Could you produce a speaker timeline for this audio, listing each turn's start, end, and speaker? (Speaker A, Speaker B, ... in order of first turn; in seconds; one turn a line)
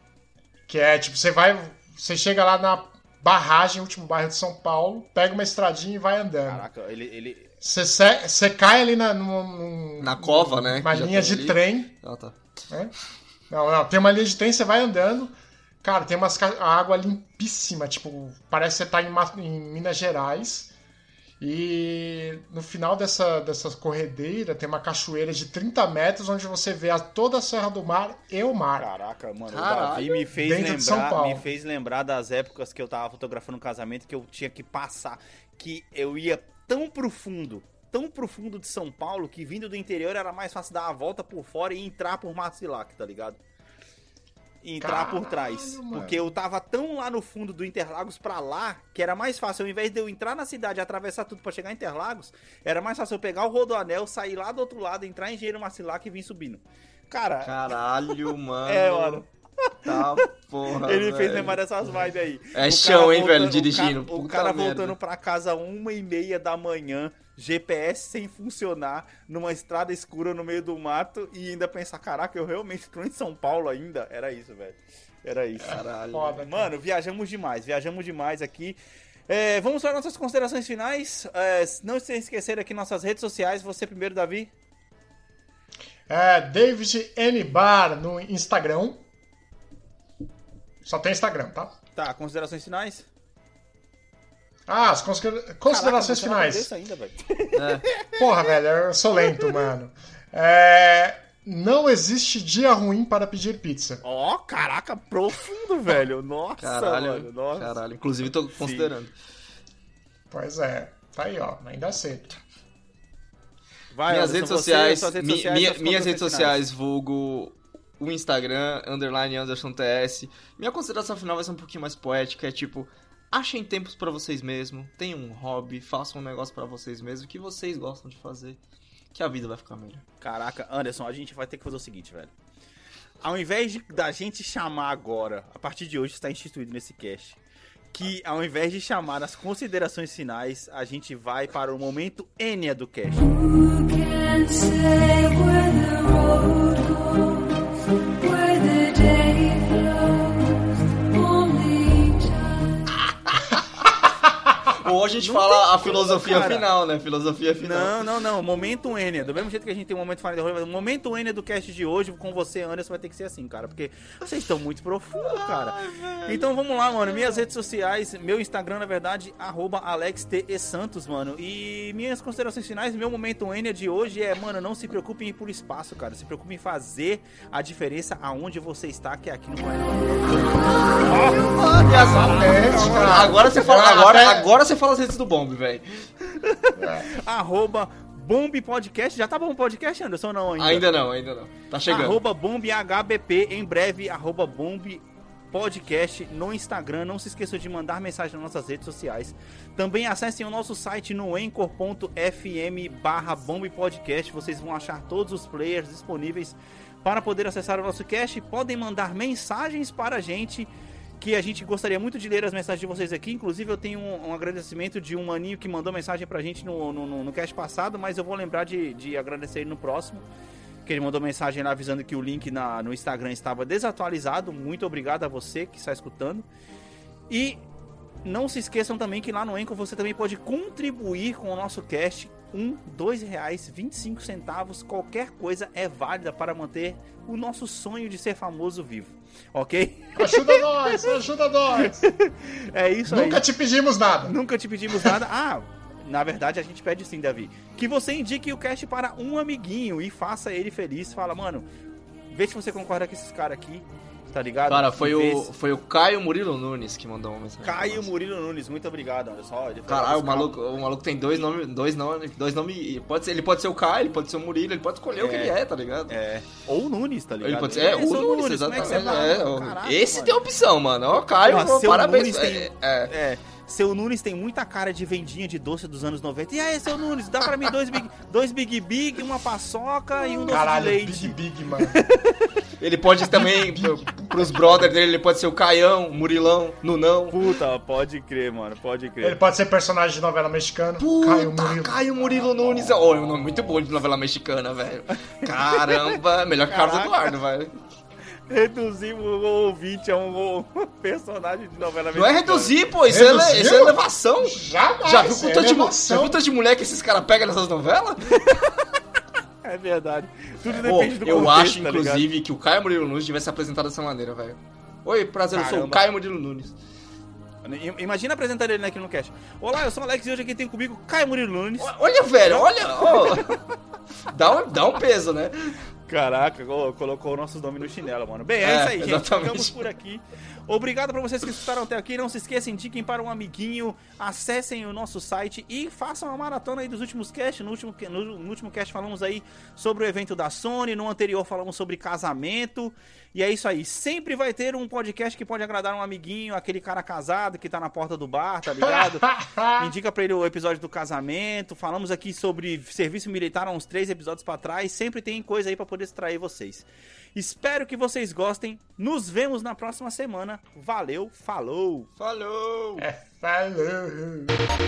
Speaker A: 0.7-6.7
Speaker B: 6.5-7.5
Speaker A: 7.6-11.9
Speaker C: 10.0-12.4
Speaker A: 13.5-20.7
Speaker A: 21.4-28.9
Speaker B: 28.8-43.4
Speaker C: 29.5-30.2
Speaker A: 30.3-31.4
Speaker B: 44.6-75.8
Speaker A: 44.8-46.4
Speaker C: 57.4-59.3
Speaker C: 59.8-65.0
Speaker C: 75.6-76.4
Speaker A: 75.6-76.7
Speaker B: 76.4-84.5
Speaker A: 86.1-89.0
Speaker A: 90.8-91.7
Speaker B: 92.0-93.0
Speaker A: 94.7-96.7
Speaker B: 95.7-98.3
Speaker C: 97.5-97.9
Speaker A: 98.1-104.0
Speaker B: 99.1-99.7
Speaker B: 104.0-107.8
Speaker C: 106.6-109.1
Speaker B: 108.5-108.9
Speaker A: 110.3-112.4
Speaker B: 113.9-116.6
Speaker C: 114.1-128.6
Speaker C: 129.1-130.0
Speaker B: 130.2-132.3
Speaker B: 133.2-137.4
Speaker B: 137.9-143.3
Speaker D: 143.2-153.1
Speaker C: 153.5-153.9
Speaker C: 154.7-157.9
Speaker B: 155.2-156.7
Speaker B: 157.6-183.4
Speaker C: 165.2-166.5
Speaker C: 167.0-167.4
Speaker C: 181.4-186.1
Speaker A: 181.8-184.6
Speaker B: 186.3-190.9
Speaker A: 186.8-187.1
Speaker C: 190.6-192.2
Speaker B: 191.9-220.2
Speaker B: 220.8-226.4
Speaker B: 227.3-227.6
Speaker B: 228.2-241.1
Speaker A: 240.2-242.1
Speaker B: 241.8-243.4
Speaker A: 243.1-244.4
Speaker B: 244.2-251.6
Speaker B: 252.3-255.5
Speaker C: 254.7-258.1
Speaker B: 257.6-260.6
Speaker C: 259.9-266.1
Speaker B: 265.1-265.6
Speaker B: 266.1-270.4
Speaker C: 267.4-273.1
Speaker B: 271.4-282.5
Speaker A: 280.5-282.0
Speaker C: 282.8-287.4
Speaker A: 283.2-284.9
Speaker B: 287.3-289.4
Speaker A: 289.2-291.9
Speaker C: 291.0-297.8
Speaker B: 292.3-293.6
Speaker B: 295.4-297.3
Speaker B: 298.5-302.8
Speaker C: 302.1-308.6
Speaker A: 303.1-306.4
Speaker B: 309.6-312.3
Speaker C: 310.6-316.7
Speaker B: 315.5-316.0
Speaker B: 317.6-321.9
Speaker C: 321.8-323.5
Speaker B: 322.4-323.6
Speaker C: 324.3-325.8
Speaker B: 326.1-362.1
Speaker C: 328.6-329.8
Speaker A: 348.8-349.9
Speaker C: 362.2-363.1
Speaker A: 363.0-364.6